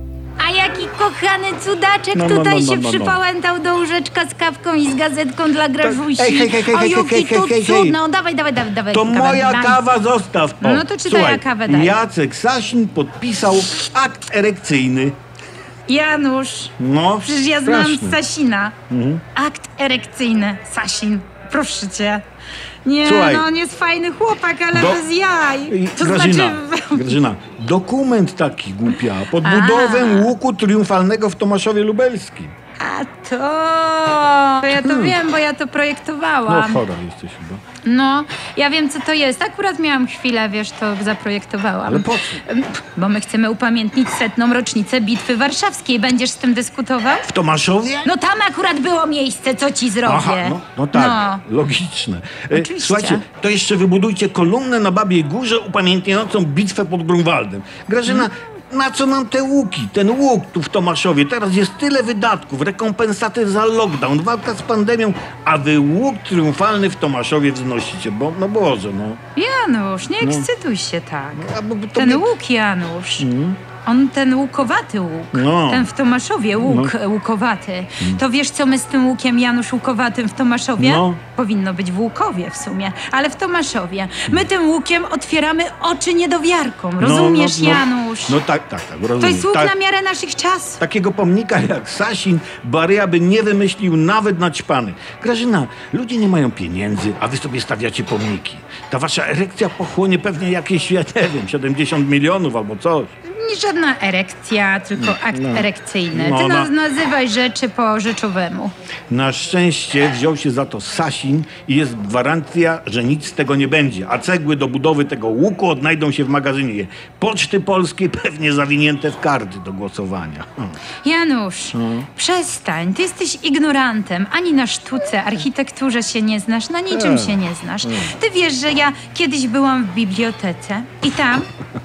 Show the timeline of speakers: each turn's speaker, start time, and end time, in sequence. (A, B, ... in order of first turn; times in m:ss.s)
0:00.4-0:09.8 A
0:02.1-0:03.2 B
0:05.8-0:08.0 B
0:08.9-0:15.2 B
0:10.6-0:12.0 A
0:15.9-0:18.8 A
0:16.8-0:18.2 B
0:18.9-0:19.2 B
0:19.3-0:22.2 A
0:22.8-0:27.2 A
0:23.0-0:23.5 B
0:24.7-0:25.0 B
0:25.6-0:32.5 B
0:29.4-0:30.3 A
0:32.8-0:36.8 A
0:34.7-0:35.2 B
0:36.4-0:37.6 B
0:37.8-0:47.3 A
0:41.8-0:42.4 B
0:47.2-0:48.1 B
0:48.0-0:51.4 A
0:50.0-1:09.2 B
0:52.5-0:53.2 A
1:09.4-1:13.3 A
1:10.2-1:10.5 B
1:11.3-1:12.3 B
1:13.2-1:13.6 B
1:13.8-1:28.4 A
1:15.3-1:15.9 B
1:16.6-1:16.9 B
1:20.8-1:21.2 B
1:27.0-1:29.7 B
1:29.2-1:30.8 A
1:30.8-1:43.1 B
1:43.2-1:48.7 A
1:45.0-1:46.7 B
1:49.1-2:00.8 B
2:01.0-2:11.5 A
2:01.7-2:02.1 B
2:06.9-2:08.1 B